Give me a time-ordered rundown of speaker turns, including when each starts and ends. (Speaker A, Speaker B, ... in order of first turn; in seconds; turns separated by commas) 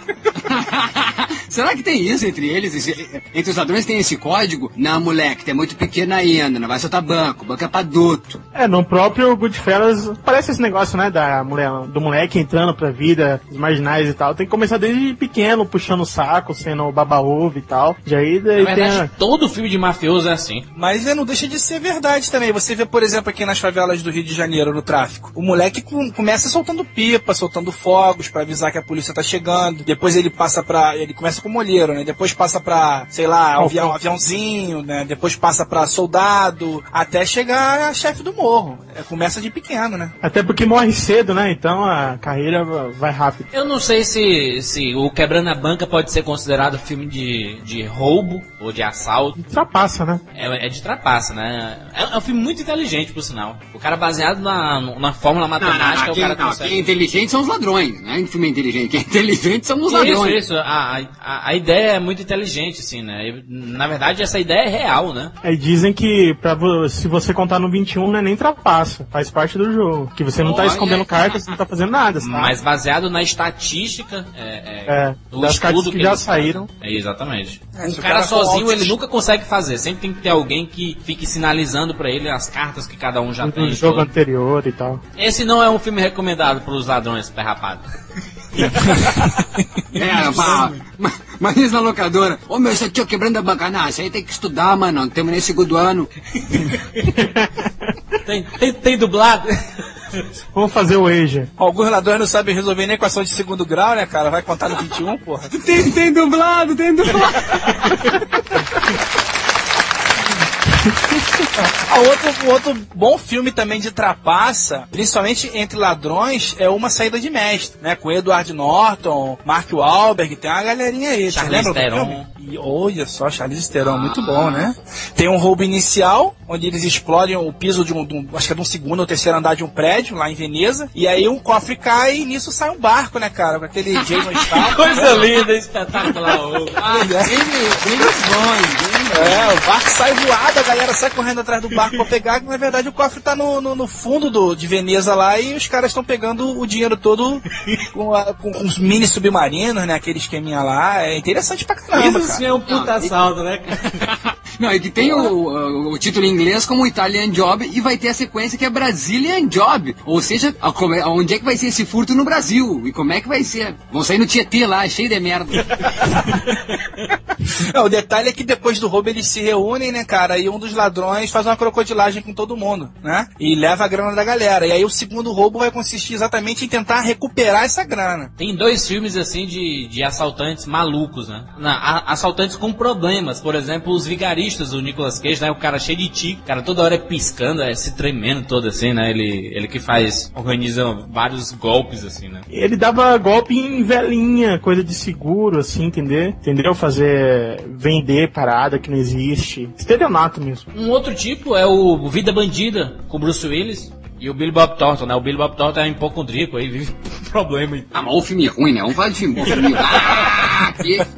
Speaker A: 0.4-8.4, Speaker B: 8.6-19.1, Speaker C: 18.6-20.6, Speaker D: 20.7-40.1, Speaker B: 33.6-34.0, Speaker B: 40.2-43.5, Speaker C: 43.5-49.4, Speaker B: 49.4-50.2, Speaker C: 50.3-56.8, Speaker A: 55.6-60.4, Speaker C: 59.9-65.3, Speaker B: 65.4-72.5, Speaker C: 70.4-71.0, Speaker A: 70.6-71.4, Speaker C: 72.2-84.1, Speaker B: 74.9-76.7, Speaker D: 77.8-78.9, Speaker B: 83.4-85.0, Speaker C: 85.2-87.8, Speaker C: 88.5-89.3, Speaker D: 89.0-89.4, Speaker C: 89.9-90.8, Speaker A: 89.9-96.1, Speaker C: 96.3-97.1, Speaker B: 97.1-97.7, Speaker C: 98.2-99.5, Speaker B: 100.5-101.5, Speaker D: 101.6-105.5, Speaker A: 105.5-108.0, Speaker B: 110.9-111.2, Speaker D: 111.6-135.3, Speaker C: 121.3-122.3, Speaker A: 123.8-124.7, Speaker A: 134.2-134.7, Speaker C: 134.6-136.8, Speaker A: 136.8-139.5, Speaker D: 136.9-138.2, Speaker D: 139.1-152.4, Speaker C: 151.9-154.1, Speaker A: 152.7-153.1, Speaker A: 153.8-165.7, Speaker D: 167.5-178.3, Speaker C: 178.4-192.4, Speaker B: 192.5-200.7, Speaker C: 200.7-207.9, Speaker A: 207.9-211.0